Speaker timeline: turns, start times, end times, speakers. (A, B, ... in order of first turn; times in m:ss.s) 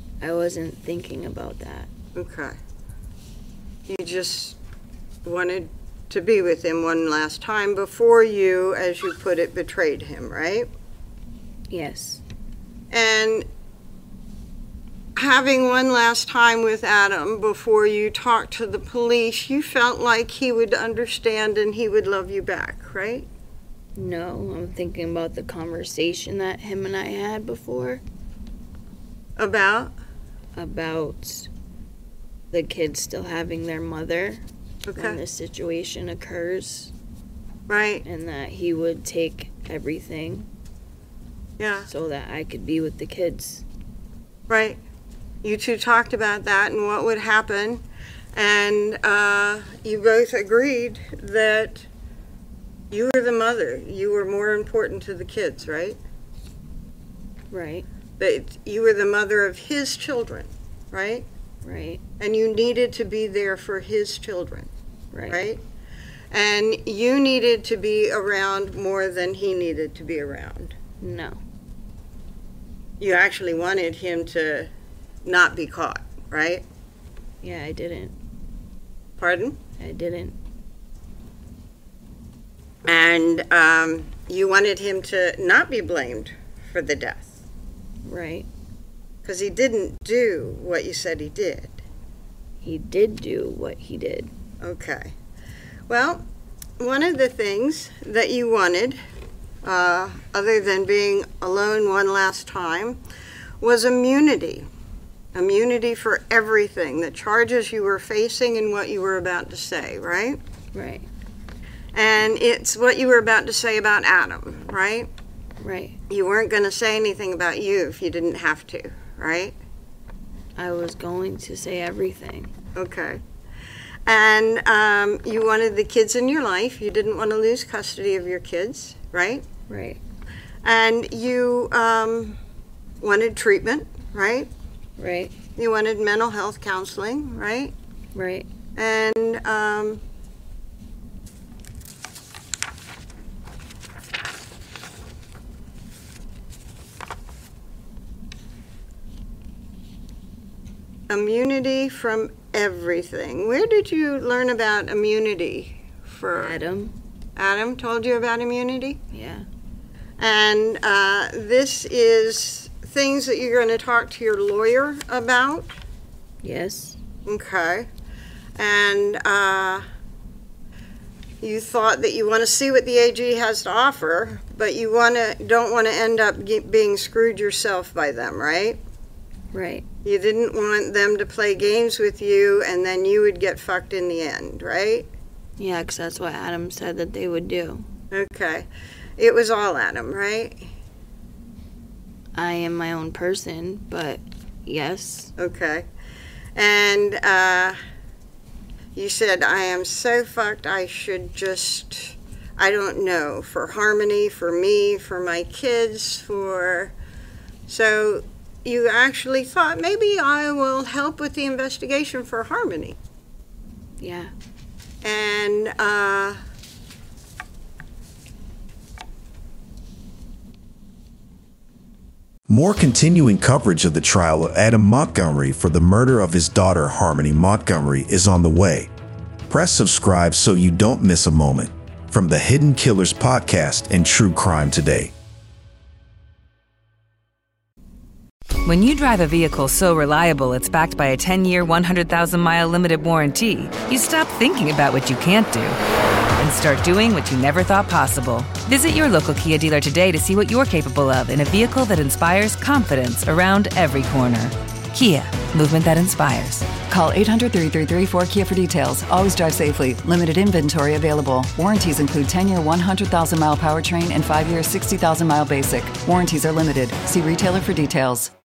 0:00.2-0:01.9 A
0:02.2-0:02.6 B
0:03.9-0:04.6 B
0:05.2-0:10.7 B
0:11.7-0:12.2 A
0:12.9-0:13.5 B
0:15.2-0:23.3 B
0:24.0-0:28.0 A
0:29.4-0:29.9 B
0:30.6-0:31.5 A
0:32.5-0:34.4 A
0:34.9-0:35.2 B
0:35.0-0:36.9 A
0:37.7-0:38.0 B
0:38.0-0:40.5 A
0:41.6-0:41.9 B
0:41.9-0:43.6 A
0:44.5-0:44.8 B
0:45.4-0:47.8 B
0:48.3-0:51.9 B
0:52.9-0:56.0 B
0:57.5-0:57.9 A
0:58.2-1:01.3 B
1:01.6-1:02.0 A
1:02.2-1:04.7 B
1:05.1-1:05.5 A
1:05.3-1:05.6 B
1:06.3-1:10.8 B
1:11.0-1:11.4 A
1:13.0-1:14.7 B
1:15.2-1:16.6 B
1:17.4-1:18.2 A
1:19.2-1:19.6 B
1:19.8-1:20.4 A
1:22.8-1:27.3 B
1:28.0-1:28.5 A
1:29.2-1:31.8 B
1:32.6-1:34.3 A
1:34.6-1:35.1 B
1:35.9-1:36.2 B
1:36.8-1:39.0 B
1:39.6-1:43.0 B
1:43.6-1:44.7 B
1:45.3-1:50.4 B
1:50.7-1:51.1 A
1:51.9-1:55.1 B
1:55.6-1:56.0 A
1:56.1-1:59.6 B
2:00.6-2:02.5 A
2:02.8-2:03.2 B
2:04.1-2:09.5 B
2:09.7-2:10.0 A
2:10.6-2:12.4 B
2:13.0-2:14.5 B
2:15.0-2:15.4 A
2:15.6-2:17.7 B
2:18.1-2:18.5 A
2:18.8-2:20.0 B
2:31.1-2:36.6 B
2:36.4-2:37.0 A
2:37.4-2:39.0 B
2:39.1-2:39.5 A
2:40.2-2:45.8 B
2:46.4-2:47.0 A
2:47.3-2:47.9 B
2:48.6-2:49.8 B
2:51.4-2:58.8 B
2:59.5-2:59.9 A
3:00.0-3:05.1 B
3:05.6-3:07.9 A
3:08.1-3:08.7 B
3:09.2-3:10.6 B
3:12.4-3:15.3 A
3:15.4-3:15.9 B
3:16.6-3:17.8 B
3:19.0-3:26.9 B
3:27.7-3:33.0 B
3:34.0-3:34.3 A
3:35.0-3:36.4 B
3:42.5-3:48.9 C
3:49.5-3:55.1 C
3:58.6-4:05.8 D
4:06.4-4:16.8 D
4:16.8-4:28.3 E